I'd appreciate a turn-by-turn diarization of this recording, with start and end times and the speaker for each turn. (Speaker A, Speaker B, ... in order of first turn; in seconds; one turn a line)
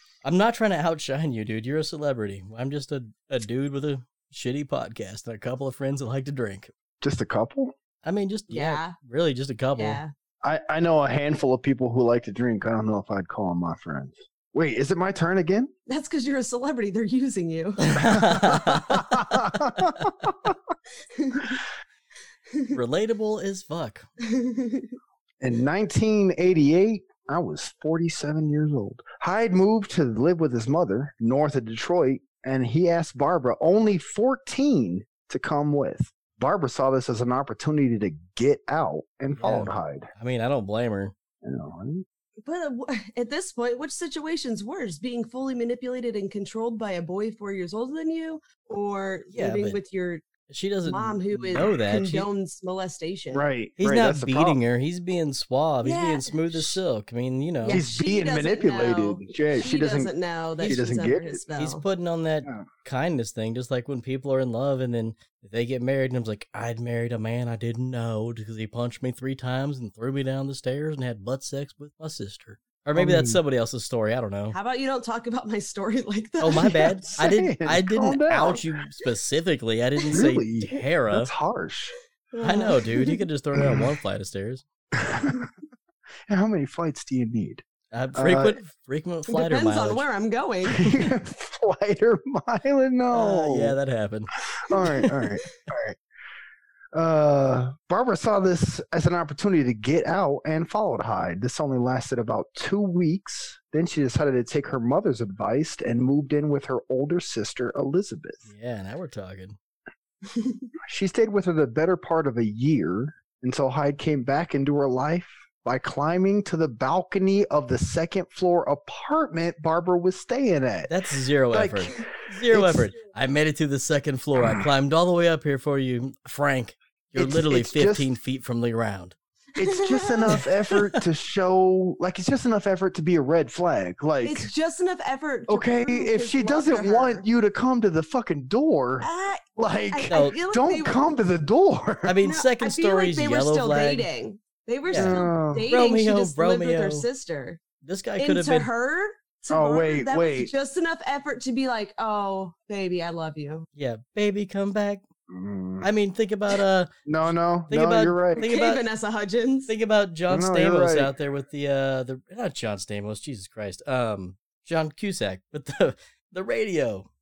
Speaker A: 0.2-6.7
Speaker B: 7.0-7.8
Speaker A: 8.0-10.0
Speaker C: 8.5-9.0
Speaker C: 9.8-10.1
Speaker B: 10.4-15.7
Speaker C: 15.9-18.6
Speaker A: 17.8-19.2
Speaker B: 18.5-20.5
Speaker A: 19.8-20.1
Speaker C: 21.2-21.6
Speaker A: 22.7-24.1
Speaker C: 24.3-24.9
Speaker B: 25.4-40.1
Speaker A: 39.4-41.1
Speaker B: 41.4-42.0
Speaker C: 42.5-50.2
Speaker A: 49.3-49.8
Speaker A: 50.5-52.3
Speaker C: 50.9-53.4
Speaker B: 53.3-54.6
Speaker A: 53.8-57.8
Speaker C: 55.8-56.8
Speaker C: 57.6-61.8
Speaker B: 57.7-61.4
Speaker A: 61.6-74.6
Speaker B: 73.0-73.4
Speaker C: 74.5-76.9
Speaker A: 76.4-81.3
Speaker B: 76.6-78.6
Speaker B: 80.1-81.9
Speaker C: 82.3-83.2
Speaker A: 82.4-84.6
Speaker B: 85.0-85.5
Speaker B: 86.3-88.6
Speaker A: 87.9-90.0
Speaker C: 89.3-91.1
Speaker B: 90.7-93.8
Speaker A: 93.1-94.3
Speaker B: 94.7-96.0
Speaker C: 94.8-95.5
Speaker B: 96.9-108.4
Speaker A: 108.5-109.6
Speaker C: 110.3-110.7
Speaker B: 110.8-120.9
Speaker A: 120.9-129.2
Speaker B: 121.5-122.9
Speaker B: 127.2-128.1
Speaker B: 129.6-134.5
Speaker C: 129.6-130.8
Speaker C: 134.2-137.2
Speaker B: 135.5-142.2
Speaker C: 139.0-141.0
Speaker A: 140.1-140.3
Speaker A: 142.1-144.1
Speaker C: 142.2-147.6
Speaker A: 144.9-147.1
Speaker B: 144.9-145.7
Speaker A: 147.8-148.7
Speaker C: 148.2-153.7
Speaker B: 149.5-150.5
Speaker A: 153.8-155.0
Speaker B: 155.3-155.9
Speaker A: 155.8-158.8
Speaker B: 157.1-158.4
Speaker C: 158.4-159.7
Speaker A: 159.7-167.1
Speaker B: 160.3-161.1